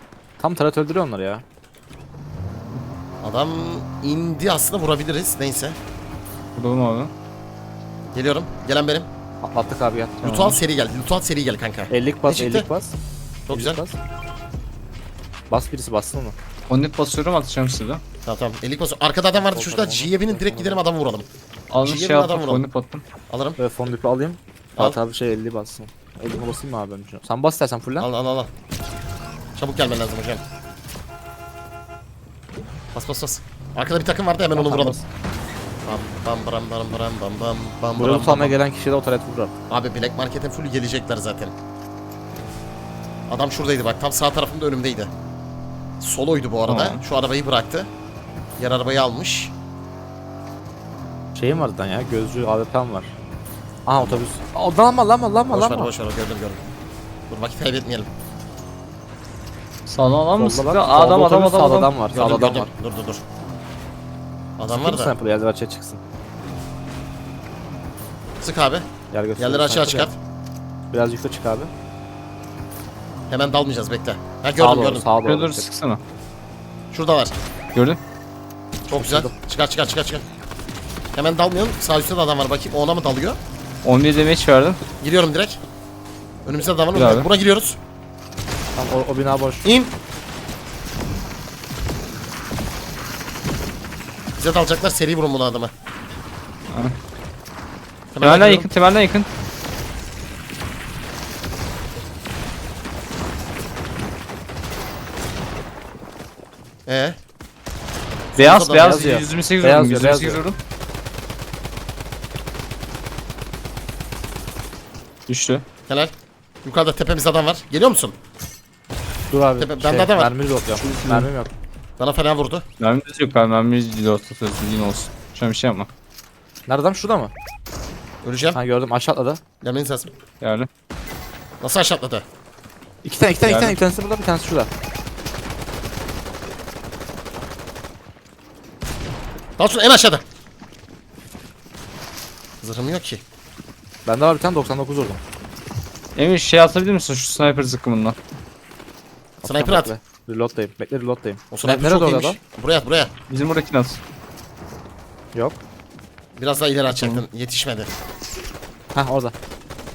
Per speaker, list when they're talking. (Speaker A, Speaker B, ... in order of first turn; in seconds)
Speaker A: 0.4-1.4, 9.4-10.3, 11.9-12.9, 13.5-14.0, 15.5-16.3, 19.4-20.8, 23.6-28.1, 34.5-35.0, 38.0-39.5, 51.3-53.1, 53.9-55.9, 60.4-62.7, 64.7-66.0, 69.1-70.1, 70.9-71.7, 74.6-75.7, 78.9-79.3, 88.8-89.7, 108.7-110.4, 119.3-121.5, 126.7-127.3, 128.5-129.4, 133.0-134.7, 144.1-145.2, 149.4-152.4, 155.3-155.6, 158.9-159.3
Speaker B: 3.2-5.8, 8.1-9.1, 10.2-12.7, 13.5-13.8, 18.2-21.2, 21.8-22.6, 23.3-23.6, 28.0-28.5, 29.6-30.4, 32.9-35.0, 35.8-38.6, 39.7-41.5, 43.3-45.1, 46.0-47.9, 48.6-49.5, 55.5-56.6, 57.3-58.1, 62.1-63.2, 64.6-65.2, 68.4-68.8, 69.4-70.2, 73.3-75.1, 76.9-77.3, 78.9-80.2, 81.1-83.4, 85.0-85.6, 86.4-87.8, 89.6-89.9, 94.4-95.7, 98.1-98.7, 106.8-107.2, 108.3-109.0, 116.6-118.2, 119.6-120.3, 122.0-122.6, 128.2-128.6, 129.6-130.1, 131.6-132.2, 139.6-140.2, 142.6-143.2, 149.4-149.9, 151.5-153.1, 156.3-157.9
Speaker C: 6.5-7.1, 10.2-10.6, 16.7-18.0, 21.7-23.0, 46.7-47.0, 59.9-61.9, 75.2-76.0, 83.8-84.8, 86.9-87.3, 96.7-96.9, 98.2-99.3, 108.3-110.6, 115.3-115.6, 120.7-121.3, 122.8-125.9, 130.4-130.7, 133.4-133.8, 146.2-148.2, 153.3-154.0, 156.9-157.2